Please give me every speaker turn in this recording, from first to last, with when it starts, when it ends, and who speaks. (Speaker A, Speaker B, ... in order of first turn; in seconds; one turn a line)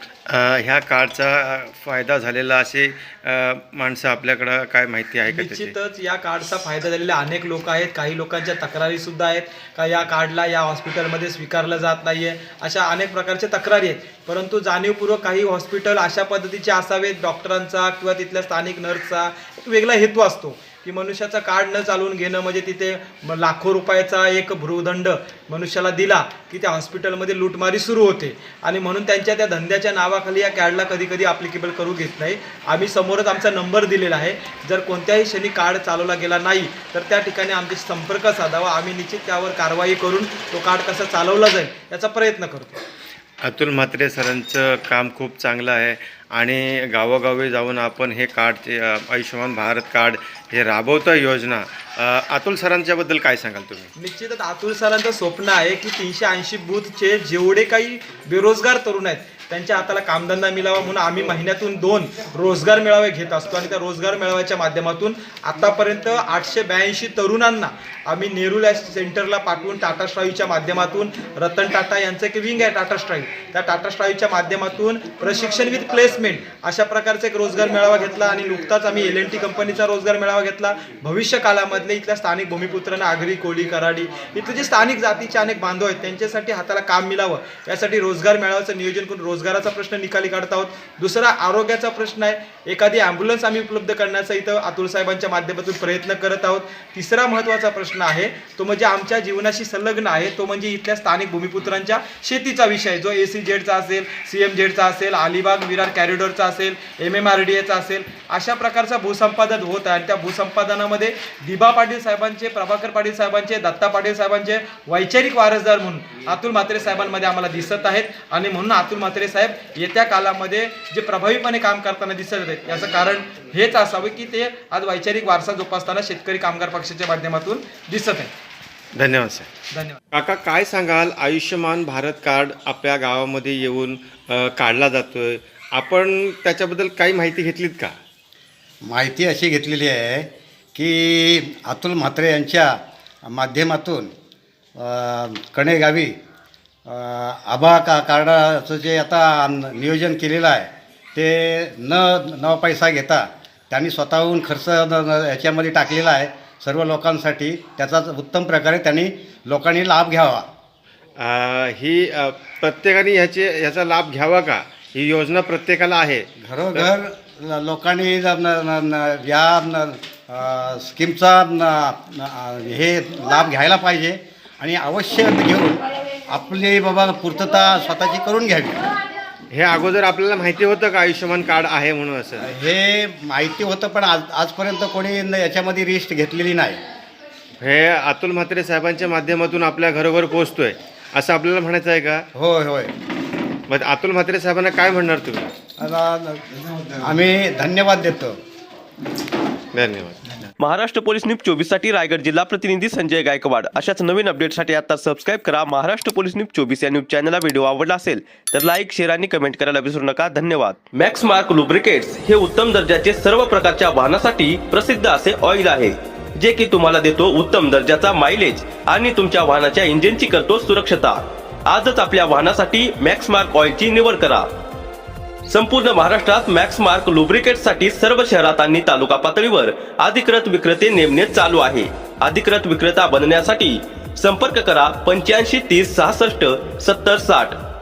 Speaker A: 0.3-5.7
Speaker B: 5.3-42.8
Speaker A: 43.4-53.9
Speaker B: 54.0-128.3
Speaker A: 128.9-129.5
Speaker B: 129.7-130.0
Speaker A: 130.1-137.9
Speaker C: 138.8-142.8
Speaker C: 143.3-144.1
Speaker C: 144.8-146.1
Speaker C: 146.8-160.5
Speaker A: 161.2-166.9
Speaker C: 166.4-178.8
Speaker A: 179.5-182.5
Speaker C: 182.4-186.8
Speaker A: 187.6-192.2
Speaker C: 192.3-192.9
Speaker A: 193.7-195.5
Speaker C: 195.8-198.3
Speaker A: 199.7-200.4
Speaker D: 200.6-224.5
Speaker D: 225.5-237.6